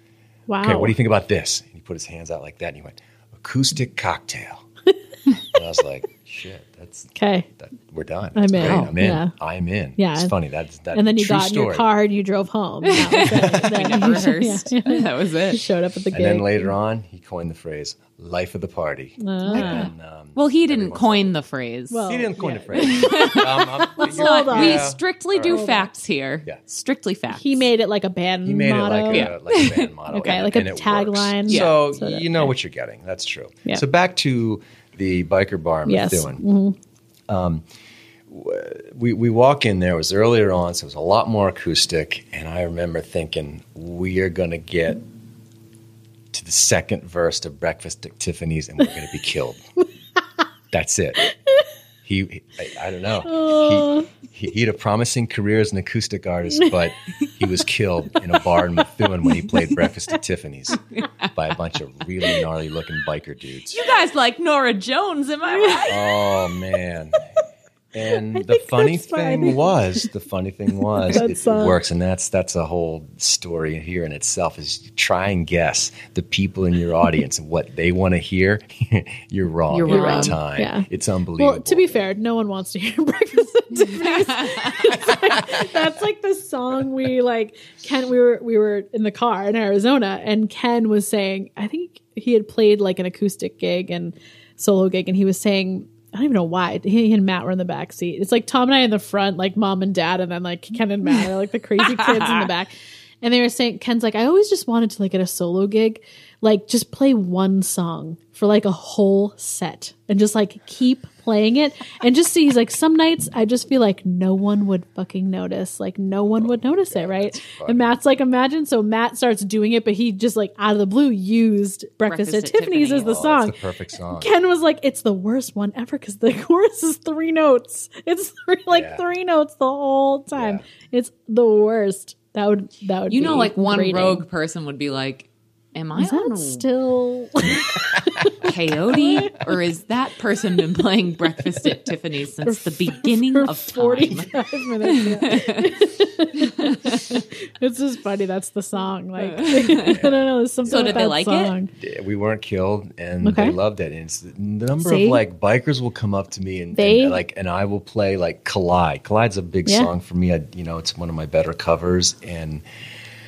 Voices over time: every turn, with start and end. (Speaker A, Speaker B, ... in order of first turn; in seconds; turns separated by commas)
Speaker A: 0.5-0.9, Speaker B: 0.6-4.6, Speaker B: 5.5-11.9, Speaker A: 7.1-7.5, Speaker A: 8.3-9.3, Speaker C: 8.6-8.9, Speaker A: 10.0-10.3, Speaker A: 10.9-16.7, Speaker C: 12.8-15.6, Speaker B: 13.0-14.0, Speaker B: 16.1-21.3, Speaker A: 19.2-19.9, Speaker C: 19.5-22.1, Speaker A: 21.9-25.9, Speaker B: 22.1-25.6, Speaker C: 22.8-27.7, Speaker A: 27.3-29.3, Speaker B: 28.4-36.4, Speaker C: 29.1-29.9, Speaker A: 30.1-32.5, Speaker C: 31.5-31.7, Speaker A: 35.9-36.8, Speaker B: 37.3-37.6, Speaker B: 38.3-45.0, Speaker B: 46.3-49.6, Speaker B: 50.7-51.3, Speaker B: 52.0-60.8, Speaker A: 53.2-54.1, Speaker C: 60.9-61.5, Speaker B: 61.3-63.9, Speaker C: 63.7-66.1, Speaker A: 65.5-65.9, Speaker B: 65.8-67.2, Speaker B: 67.9-82.0, Speaker A: 68.3-70.1, Speaker A: 70.8-71.8, Speaker C: 79.7-80.3, Speaker A: 79.9-80.8, Speaker A: 81.4-123.6, Speaker C: 83.8-85.0, Speaker B: 85.0-85.8, Speaker C: 101.9-102.3, Speaker B: 116.4-118.0, Speaker C: 122.1-123.2, Speaker B: 123.0-124.3, Speaker A: 124.1-134.2, Speaker B: 128.7-129.0, Speaker B: 130.3-130.6, Speaker C: 133.1-136.6, Speaker A: 136.0-139.3, Speaker C: 138.4-144.3, Speaker A: 142.4-151.7, Speaker C: 144.8-145.8, Speaker C: 146.4-147.0, Speaker C: 149.2-150.0, Speaker B: 149.7-151.1, Speaker C: 150.7-151.5, Speaker B: 151.8-162.6, Speaker A: 153.2-153.6, Speaker A: 154.8-155.2, Speaker A: 156.7-157.2